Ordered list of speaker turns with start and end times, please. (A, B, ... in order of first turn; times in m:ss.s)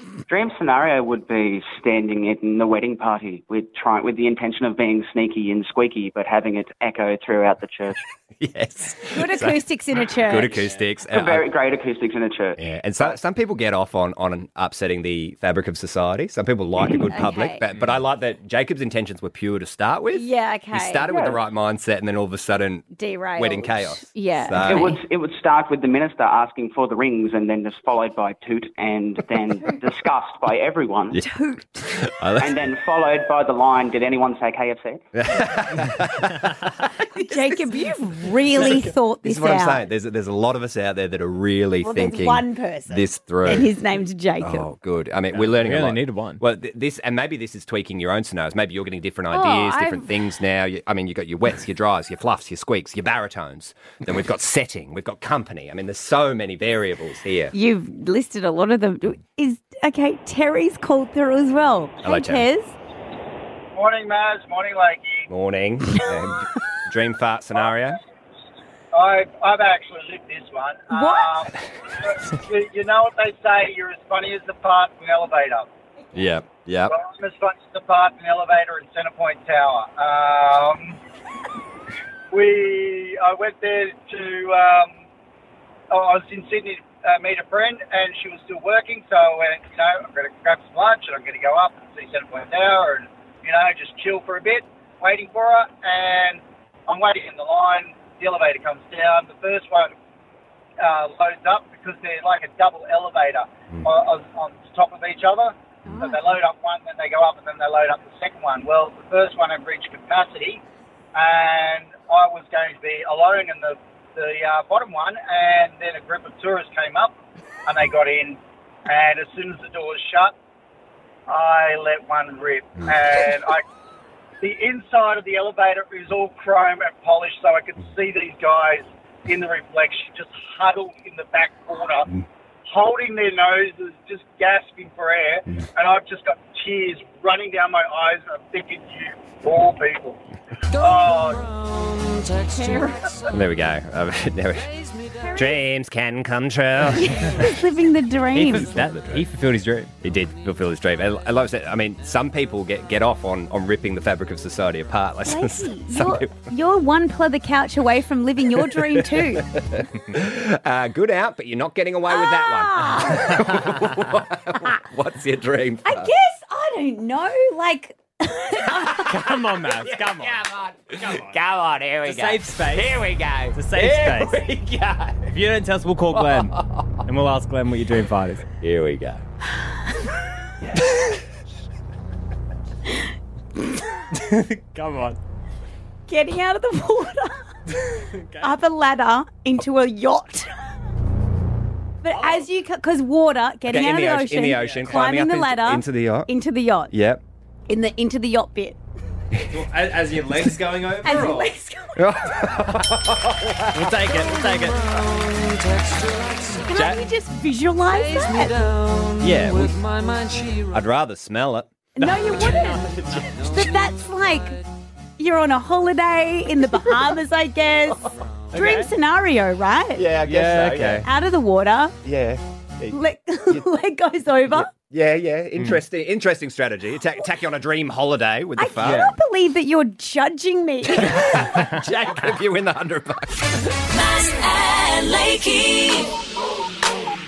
0:00.3-0:08.0 A
0:08.4-0:09.6 B
0:09.1-0:10.6 C
0:10.2-0:11.4 B
0:11.1-0:12.6 A
0:12.6-0:25.0 B
0:17.1-0:17.6 C
0:20.1-0:21.1 C
0:21.0-0:21.4 A
0:22.9-0:25.0 C
0:24.6-0:31.2 A
0:31.1-0:31.9 C
0:31.9-0:32.6 B
0:32.4-0:35.0 A
0:35.1-0:36.5 B
0:37.1-0:39.8 C
0:37.3-0:37.6 B
0:38.7-0:43.7 B
0:41.8-0:44.6 C
0:44.4-0:57.5 B
0:45.3-0:46.4 D
0:49.3-0:50.1 C
0:57.5-1:02.7 C
1:02.0-1:02.5 B
1:03.7-1:05.3 E
1:05.3-1:08.0 B
1:08.9-1:15.7 E
1:10.9-1:11.3 C
1:16.1-1:17.0 B
1:16.9-1:21.0 E
1:22.3-1:25.0 E
1:25.9-1:39.9 E
1:40.8-1:50.6 E
1:45.8-1:46.1 B
1:45.9-1:46.4 C
1:51.1-1:57.1 E
1:57.6-2:00.3 E
2:01.3-2:03.6 E
2:04.4-2:12.1 E
2:12.7-2:21.5 E
2:23.2-2:24.7 B
2:25.3-2:27.4 B
2:27.0-2:28.7 C
2:28.3-2:29.9 D
2:28.7-2:29.2 B
2:30.0-2:36.3 B
2:35.2-2:39.5 C
2:39.6-2:46.1 B
2:42.1-2:43.4 C
2:45.8-2:49.2 C
2:49.0-2:50.4 D
2:49.6-2:55.3 B
2:51.0-2:51.4 D
2:52.0-2:54.5 D
2:55.3-2:58.5 D
2:58.6-2:59.2 B
3:00.8-3:01.1 B
3:04.1-3:05.2 D
3:06.1-3:10.5 C
3:08.1-3:08.5 D
3:12.0-3:16.9 C
3:13.7-3:16.3 B
3:14.6-3:15.0 D
3:16.9-3:17.2 B
3:17.7-3:18.8 C
3:19.5-3:21.5 D
3:21.0-3:22.3 C
3:22.0-3:24.1 B
3:23.7-3:25.1 D
3:26.1-3:27.0 D
3:26.6-3:28.6 C
3:29.2-3:29.7 D
3:30.7-3:31.7 B
3:32.0-3:34.6 C
3:32.0-3:33.5 D
3:35.2-3:40.1 C
3:38.5-3:38.9 D
3:40.0-3:41.0 B
3:40.2-3:41.0 D
3:40.8-3:42.0 C
3:42.0-3:43.7 B
3:42.9-3:44.7 C
3:44.5-3:49.1 B
3:48.6-3:51.6 C
3:48.8-3:49.1 D
3:50.9-3:53.7 B
3:53.8-3:56.1 F